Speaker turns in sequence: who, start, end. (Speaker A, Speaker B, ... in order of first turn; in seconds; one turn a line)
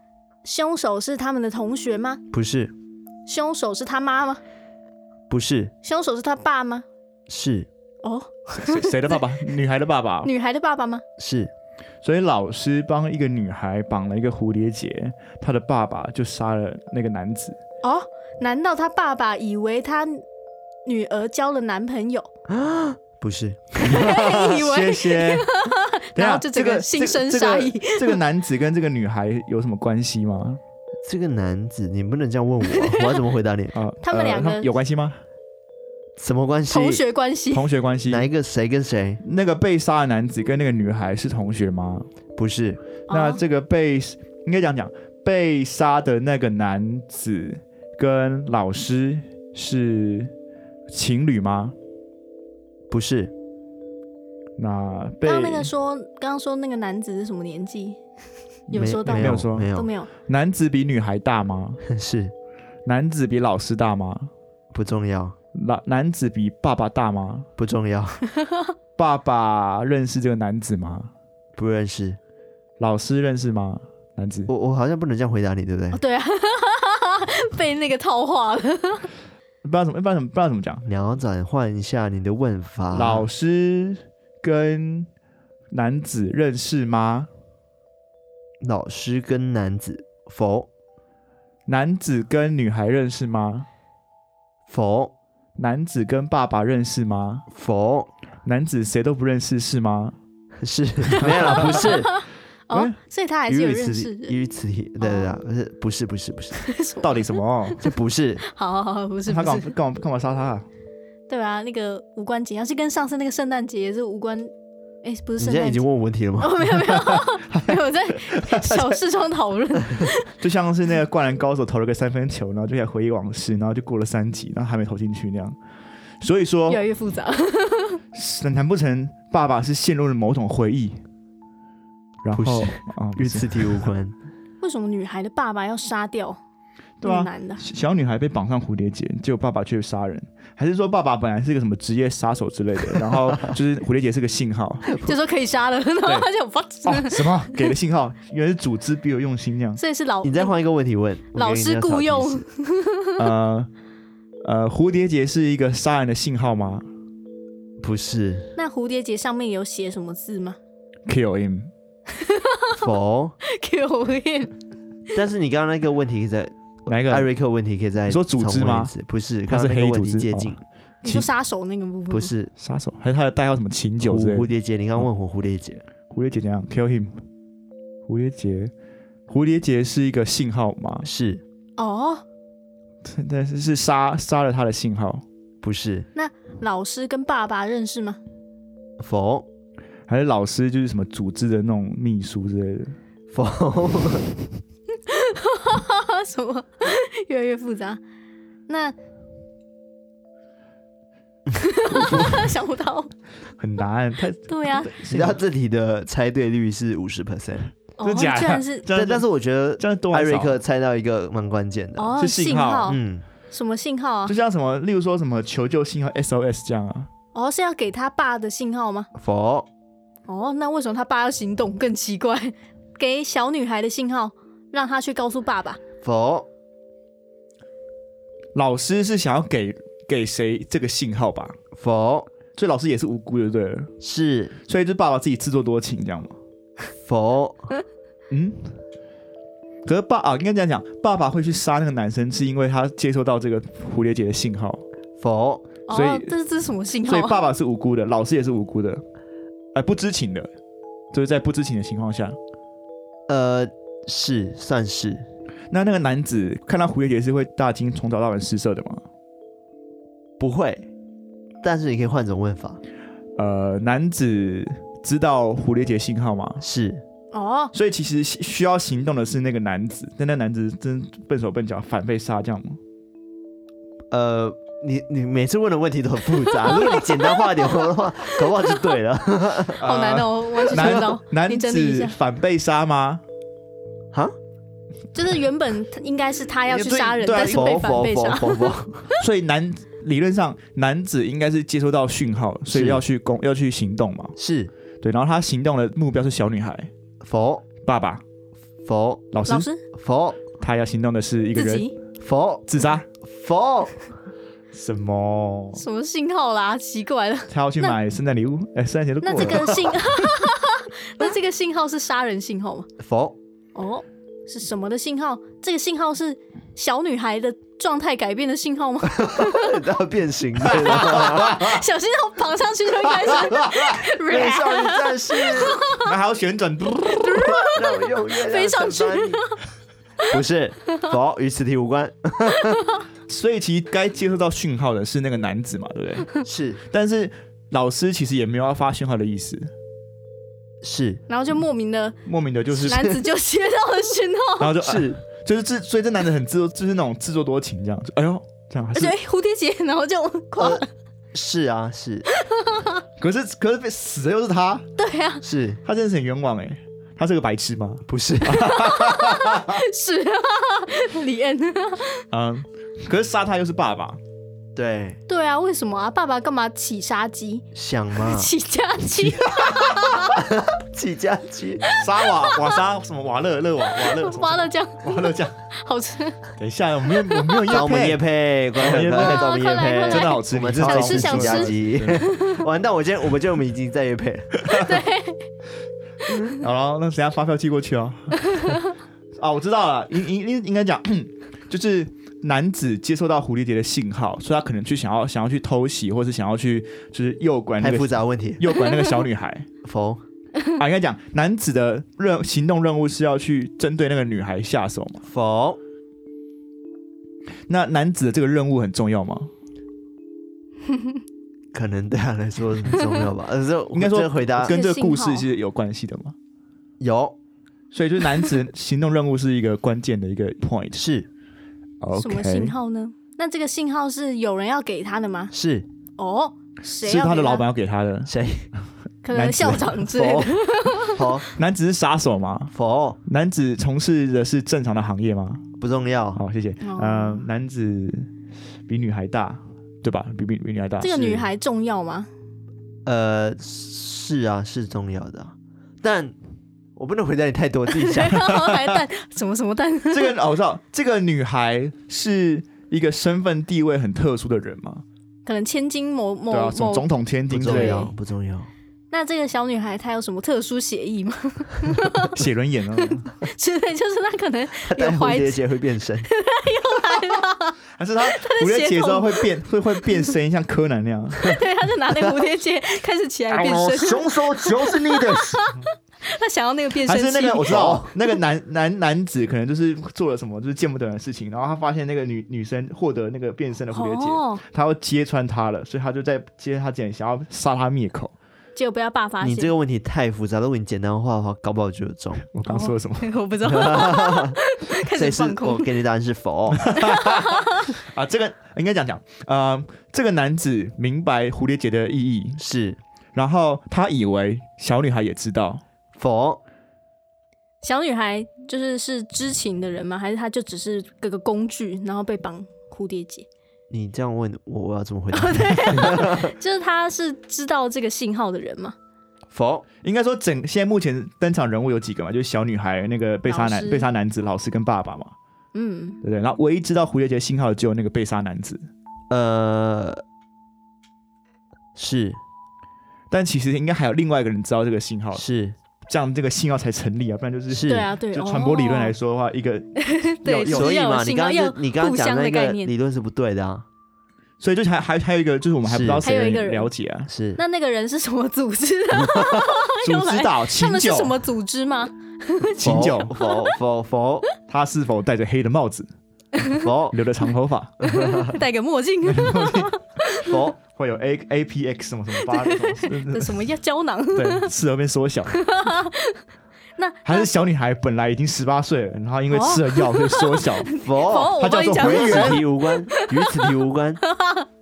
Speaker A: 0.4-2.2
Speaker B: 2.3-2.7
Speaker A: 3.3-4.4
Speaker B: 5.3-5.7
Speaker A: 5.8-6.8
Speaker B: 7.3-7.7
Speaker A: 8.0-9.2
Speaker C: 8.6-10.3
Speaker A: 10.2-11.0
Speaker B: 11.2-11.5
Speaker C: 12.0-17.6
Speaker A: 17.8-20.2
Speaker A: 20.9-22.3
Speaker B: 22.5-24.4
Speaker A: 23.8-28.2
Speaker C: 24.3-25.5
Speaker C: 26.1-30.6
Speaker B: 31.0-33.8
Speaker A: 32.8-33.1
Speaker C: 33.7-35.2
Speaker A: 34.0-34.7
Speaker B: 36.2-37.0
Speaker A: 36.7-37.7
Speaker C: 37.5-38.3
Speaker B: 38.1-39.2
Speaker C: 39.2-42.1
Speaker B: 42.4-42.8
Speaker A: 43.1-43.4
Speaker C: 43.1-50.3
Speaker C: 50.9-51.8
Speaker B: 52.9-53.3
Speaker C: 54.6-55.7
Speaker A: 55.2-58.0
Speaker A: 58.7-60.1
Speaker C: 58.7-59.7
Speaker B: 58.7-59.9
Speaker C: 60.3-61.8
Speaker B: 61.9-62.3
Speaker C: 62.9-64.3
Speaker B: 64.7-65.3
Speaker C: 65.5-67.5
Speaker B: 67.6-68.2
Speaker A: 68.3-68.7
Speaker C: 69.0-71.1
Speaker B: 71.6-72.2
Speaker C: 72.8-74.5
Speaker B: 74.5-76.0
Speaker A: 75.9-79.1
Speaker C: 79.6-80.8
Speaker B: 80.9-83.3
Speaker C: 82.9-85.1
Speaker C: 85.7-87.3
Speaker B: 88.6-90.7
Speaker C: 91.7-93.7
Speaker B: 94.7-95.1
Speaker C: 95.6-97.5
Speaker B: 97.5-98.1
Speaker C: 98.5-100.2
Speaker B: 100.6-102.1
Speaker C: 101.1-102.0
Speaker A: 101.7-104.4
Speaker B: 103.5-106.6
Speaker A: 105.0-105.4
Speaker A: 106.6-107.8
Speaker C: 107.0-107.8
Speaker B: 107.8-108.4
Speaker A: 108.5-109.7
Speaker C: 109.3-110.7
Speaker A: 111.3-114.5
Speaker A: 115.0-115.8
Speaker B: 115.4-116.6
Speaker A: 116.4-120.3
Speaker C: 116.9-119.0
Speaker C: 120.4-125.6
Speaker C: 126.2-126.8
Speaker A: 126.7-128.0
Speaker C: 128.1-131.0
Speaker C: 132.2-133.9
Speaker B: 132.3-134.2
Speaker A: 134.6-136.4
Speaker C: 137.0-145.0
Speaker A: 137.0-137.6
Speaker A: 145.0-147.6
Speaker C: 146.8-149.8
Speaker A: 149.8-150.5
Speaker B: 150.2-152.5
Speaker A: 151.3-153.2
Speaker C: 153.2-153.7
Speaker C: 154.4-156.9
Speaker B: 157.8-158.5
Speaker A: 158.6-160.6
Speaker C: 161.1-161.7
Speaker A: 162.1-162.8
Speaker B: 162.8-163.4
Speaker A: 163.4-164.5
Speaker B: 165.2-170.6
Speaker C: 166.9-167.3
Speaker C: 168.1-168.9
Speaker C: 169.5-171.3
Speaker A: 171.0-172.3
Speaker B: 172.1-172.5
Speaker C: 172.6-175.1
Speaker B: 174.0-175.8
Speaker C: 176.1-177.2
Speaker C: 178.1-178.7
Speaker C: 179.3-181.1
Speaker B: 181.1-181.4
Speaker A: 181.8-182.2
Speaker C: 183.0-185.2
Speaker B: 185.6-186.1
Speaker A: 186.2-188.2
Speaker B: 189.0-189.5
Speaker C: 190.1-192.9
Speaker B: 193.3-194.3
Speaker A: 195.1-198.0
Speaker A: 198.7-198.9
Speaker A: 201.6-203.1
Speaker C: 203.6-205.4
Speaker A: 204.5-204.9
Speaker B: 205.1-207.7
Speaker A: 208.0-208.9
Speaker C: 208.0-209.2
Speaker B: 208.9-212.2
Speaker C: 209.8-210.6
Speaker A: 212.0-213.0
Speaker C: 212.2-213.0
Speaker B: 212.9-213.2
Speaker A: 213.5-214.3
Speaker C: 214.3-217.1
Speaker A: 217.3-219.1
Speaker B: 219.2-219.7
Speaker A: 220.3-225.8
Speaker B: 226.0-226.5
Speaker C: 228.6-231.6
Speaker B: 231.8-232.3
Speaker C: 232.6-233.9
Speaker B: 234.0-234.6
Speaker C: 234.7-236.3
Speaker B: 237.0-237.7
Speaker C: 238.3-238.7
Speaker C: 239.9-244.8
Speaker B: 245.2-245.7
Speaker A: 245.9-247.4
Speaker C: 245.9-246.3
Speaker C: 247.1-249.0
Speaker C: 249.8-250.5
Speaker C: 251.1-252.4
Speaker B: 253.3-255.3
Speaker C: 255.7-259.0
Speaker B: 260.4-260.9
Speaker B: 261.6-262.8
Speaker C: 263.4-266.6
Speaker B: 266.6-267.0
Speaker A: 267.3-267.7
Speaker C: 267.7-272.8
Speaker B: 274.1-279.8
Speaker A: 276.6-277.9
Speaker C: 279.8-283.2
Speaker A: 279.8-282.2
Speaker A: 285.1-288.8
Speaker C: 286.7-287.8
Speaker B: 287.4-289.0
Speaker C: 289.2-294.3
Speaker B: 292.7-293.0
Speaker B: 294.4-294.7
Speaker C: 295.0-296.9
Speaker B: 297.2-297.7
Speaker C: 297.8-298.2
Speaker B: 298.9-299.2
Speaker C: 299.3-299.7
Speaker A: 299.5-299.8
Speaker B: 299.9-300.4
Speaker C: 300.6-301.9
Speaker A: 301.6-301.9
Speaker B: 302.2-302.7
Speaker C: 302.7-303.1
Speaker B: 303.2-304.0
Speaker C: 304.7-305.8
Speaker A: 305.8-308.0
Speaker C: 307.5-309.8
Speaker A: 309.2-312.9
Speaker B: 309.4-309.8
Speaker B: 313.0-313.4
Speaker A: 313.8-319.8
Speaker B: 319.2-321.6
Speaker C: 320.7-321.8
Speaker A: 321.4-326.1
Speaker C: 323.1-324.0
Speaker B: 324.2-325.8
Speaker C: 326.0-327.5
Speaker A: 327.1-329.6
Speaker B: 327.5-329.4
Speaker B: 330.3-332.8
Speaker A: 332.6-333.0
Speaker C: 333.3-336.3
Speaker B: 336.4-336.8
Speaker C: 336.9-339.7
Speaker B: 340.8-341.2
Speaker A: 341.3-342.2
Speaker C: 342.2-343.1
Speaker A: 342.7-344.7
Speaker C: 344.6-349.1
Speaker B: 344.8-345.2
Speaker A: 348.9-350.9
Speaker B: 350.6-350.8
Speaker B: 351.3-352.3
Speaker A: 352.3-353.0
Speaker C: 353.2-354.9
Speaker A: 355.0-355.4
Speaker B: 355.4-355.8
Speaker C: 355.9-359.8
Speaker B: 358.1-358.8
Speaker A: 358.8-362.2
Speaker C: 362.3-364.2
Speaker B: 364.8-365.2
Speaker A: 365.3-370.4
Speaker B: 367.7-368.5
Speaker C: 369.1-370.2
Speaker B: 370.4-371.8
Speaker C: 372.0-375.5
Speaker A: 372.2-372.8
Speaker A: 373.9-376.4
Speaker C: 376.6-378.2
Speaker A: 377.2-377.6
Speaker B: 377.7-384.7
Speaker C: 378.8-382.2
Speaker A: 379.1-382.6
Speaker A: 384.7-385.4
Speaker C: 386.5-388.8
Speaker A: 388.5-388.8
Speaker C: 389.4-399.7
Speaker B: 397.8-398.6
Speaker B: 399.8-400.2
Speaker C: 400.8-405.2
Speaker B: 405.3-405.8
Speaker C: 407.7-409.5
Speaker B: 411.7-414.8
Speaker C: 413.9-416.4
Speaker A: 414.7-415.4
Speaker B: 417.0-417.4
Speaker C: 417.9-421.0
Speaker B: 420.9-421.3
Speaker C: 422.0-422.7
Speaker A: 422.1-425.5
Speaker B: 425.5-425.9
Speaker A: 426.2-427.7
Speaker C: 427.0-428.3
Speaker B: 428.3-428.7
Speaker A: 429.2-431.2
Speaker C: 429.3-430.0
Speaker B: 430.1-430.5
Speaker B: 431.1-431.4
Speaker C: 431.6-432.7
Speaker B: 432.7-433.2
Speaker C: 433.3-435.7
Speaker B: 435.8-436.4
Speaker C: 436.4-438.3
Speaker A: 436.8-437.4
Speaker C: 438.9-441.5
Speaker A: 441.0-442.3
Speaker B: 443.1-446.4
Speaker B: 447.0-448.4
Speaker A: 447.9-450.3
Speaker C: 448.3-449.0
Speaker C: 450.1-455.0
Speaker A: 455.5-457.1
Speaker C: 456.5-458.1
Speaker B: 457.5-458.7
Speaker A: 457.6-458.1
Speaker A: 459.1-462.4
Speaker C: 462.3-463.3
Speaker A: 463.0-465.6
Speaker B: 464.9-466.3
Speaker A: 466.3-469.4
Speaker C: 468.0-471.5
Speaker A: 471.5-478.1
Speaker C: 473.5-475.7
Speaker C: 477.1-488.3
Speaker B: 477.7-478.1
Speaker A: 483.9-484.6
Speaker A: 488.8-489.7
Speaker B: 489.4-492.5
Speaker C: 492.5-493.3
Speaker A: 492.7-495.9
Speaker B: 493.6-494.6
Speaker B: 495.1-496.9
Speaker C: 496.8-502.6
Speaker A: 497.0-497.9
Speaker B: 502.6-503.0
Speaker C: 503.4-505.8
Speaker B: 506.2-506.6
Speaker A: 507.8-513.5
Speaker B: 513.9-516.5
Speaker A: 515.3-519.0
Speaker B: 519.5-519.9
Speaker C: 520.0-525.3
Speaker A: 523.5-524.1
Speaker A: 525.7-526.2
Speaker C: 526.2-528.9
Speaker B: 529.3-530.2
Speaker B: 532.0-532.4
Speaker C: 533.3-535.5
Speaker B: 535.3-535.8
Speaker C: 536.1-541.0
Speaker B: 537.7-538.1
Speaker A: 537.9-539.1
Speaker A: 540.0-542.9
Speaker B: 540.7-543.9
Speaker C: 544.6-547.3
Speaker B: 545.8-546.2
Speaker A: 546.2-546.9
Speaker B: 547.3-547.6
Speaker A: 547.6-553.7
Speaker B: 549.2-549.6
Speaker C: 550.0-551.4
Speaker C: 552.8-553.4
Speaker B: 552.8-554.5
Speaker C: 554.7-556.1
Speaker A: 556.6-556.8
Speaker B: 556.8-557.2
Speaker C: 557.1-558.0
Speaker B: 558.0-558.5
Speaker A: 558.0-560.5
Speaker C: 559.3-559.9
Speaker B: 560.5-560.8
Speaker C: 560.9-563.6
Speaker A: 562.4-564.7
Speaker C: 564.4-565.6
Speaker A: 565.5-566.4
Speaker A: 567.0-567.5
Speaker C: 567.2-570.9
Speaker A: 569.5-573.7
Speaker B: 571.0-574.2
Speaker C: 571.5-572.7
Speaker A: 574.2-574.7